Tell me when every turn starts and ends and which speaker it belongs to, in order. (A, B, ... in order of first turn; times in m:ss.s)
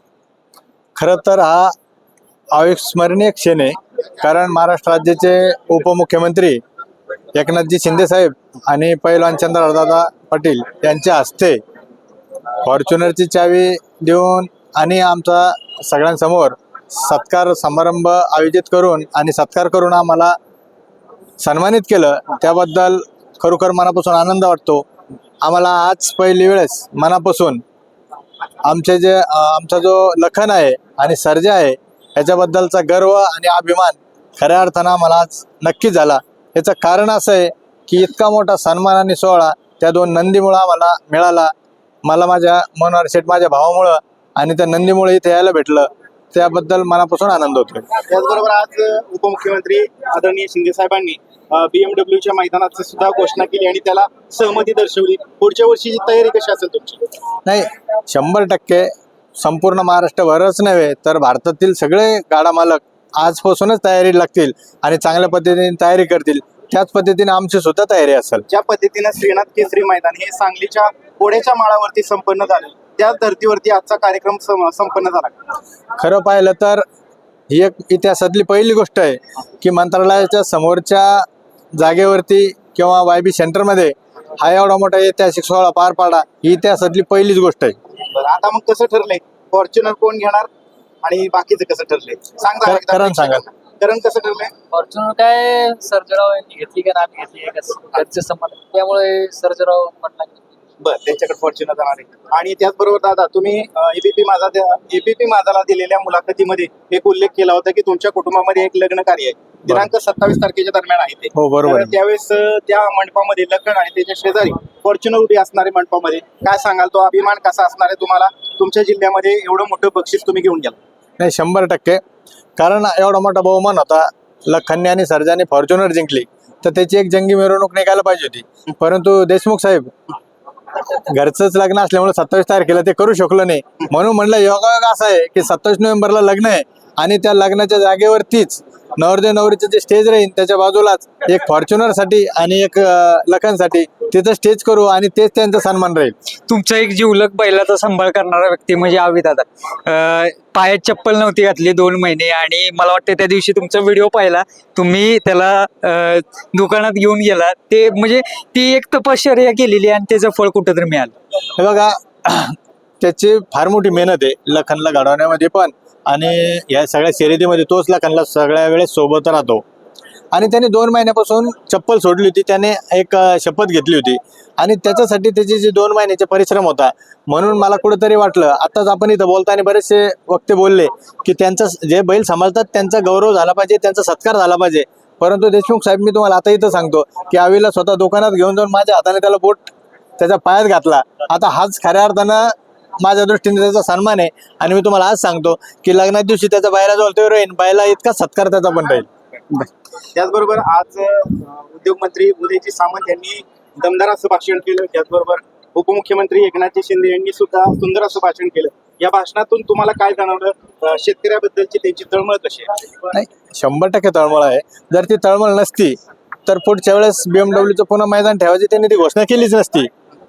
0:01.0-0:01.7 A
0:02.5-0:06.6 A
0:07.4-0:11.6 A
0:12.6-0:20.4 A
0:21.4-0:24.8 A
0:25.4-0:27.6 A
0:28.6-0:41.5 A
0:42.0-0:47.9 A
0:48.1-0:57.0 B
0:57.5-1:08.4 A
1:08.5-1:15.4 B
1:16.0-1:16.8 A
1:17.5-1:27.8 A
1:28.1-1:30.5 B
1:31.0-1:34.5 B
1:32.6-1:33.4 A
1:34.7-1:40.5 C
1:40.8-2:00.8 B
1:51.4-1:52.0 A
2:01.2-2:02.0 A
2:02.6-2:09.9 A
2:10.9-2:26.2 A
2:26.5-2:41.1 D
2:41.6-2:49.6 A
2:50.3-3:19.1 A
3:20.1-3:32.7 B
3:33.1-3:39.9 A